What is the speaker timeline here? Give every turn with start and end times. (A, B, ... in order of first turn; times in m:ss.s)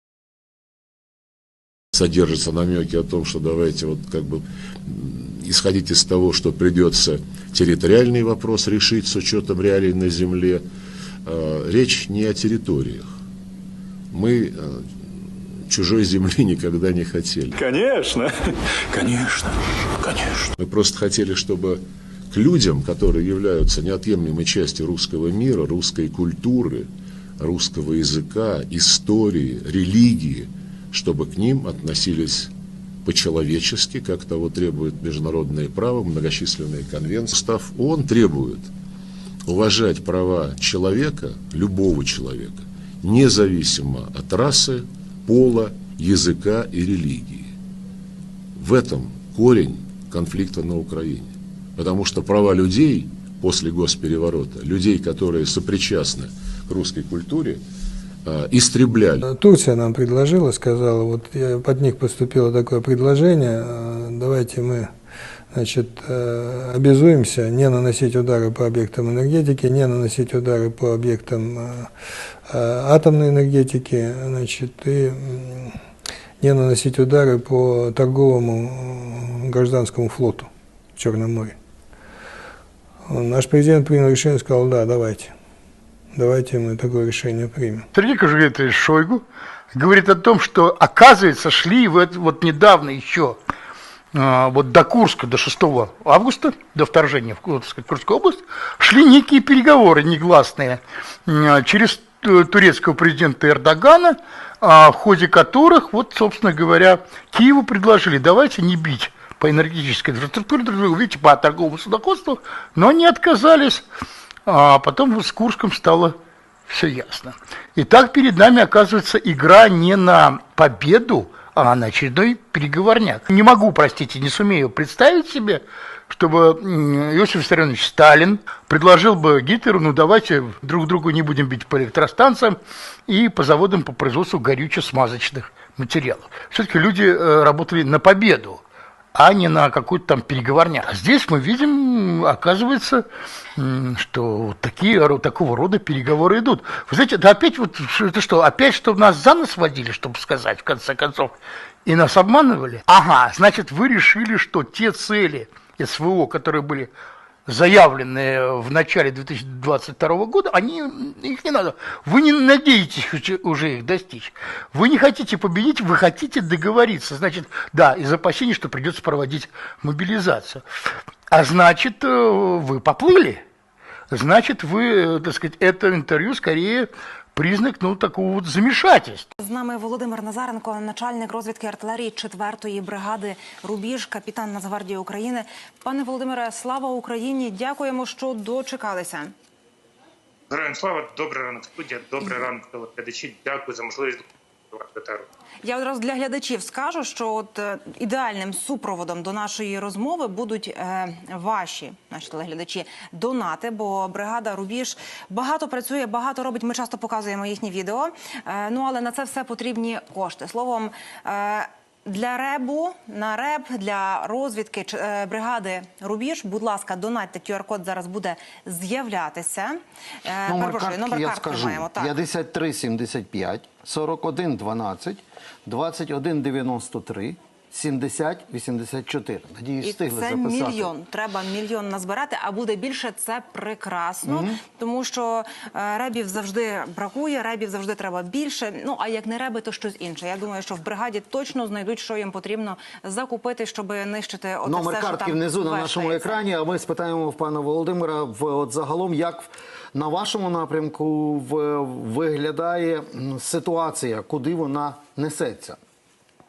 0:01.9-0:10.6 A
0:11.2-0:13.1 A
0:14.1-0:14.8 A
0:15.7-0:17.6 A
0:17.6-0:20.5 B
0:20.6-0:21.8 A
0:22.3-0:26.9 A
0:27.4-0:32.5 A
0:33.0-0:38.7 A
0:39.5-0:47.5 A
0:48.6-0:57.6 A
0:58.2-0:59.2 A
0:59.2-1:04.9 C
1:05.5-1:11.9 C
1:12.5-1:15.7 C
1:16.4-1:21.6 C
1:23.1-1:25.3 C
1:26.1-1:27.8 C
1:27.9-1:29.2 D
1:29.7-1:33.4 D
1:34.1-1:53.8 D
1:54.4-1:56.2 D
1:56.7-2:18.6 D
2:19.1-2:23.0 D
2:23.6-2:31.3 D
2:31.8-2:36.9 D
2:37.4-2:50.6 D
2:51.3-2:53.4 D
2:54.1-2:59.3 D
2:59.4-3:09.3 E
3:10.5-3:15.3 F
3:15.6-3:42.1 E
3:40.4-3:50.9 G
3:49.8-4:06.4 E
3:54.2-3:54.6 G
4:04.6-4:15.8 G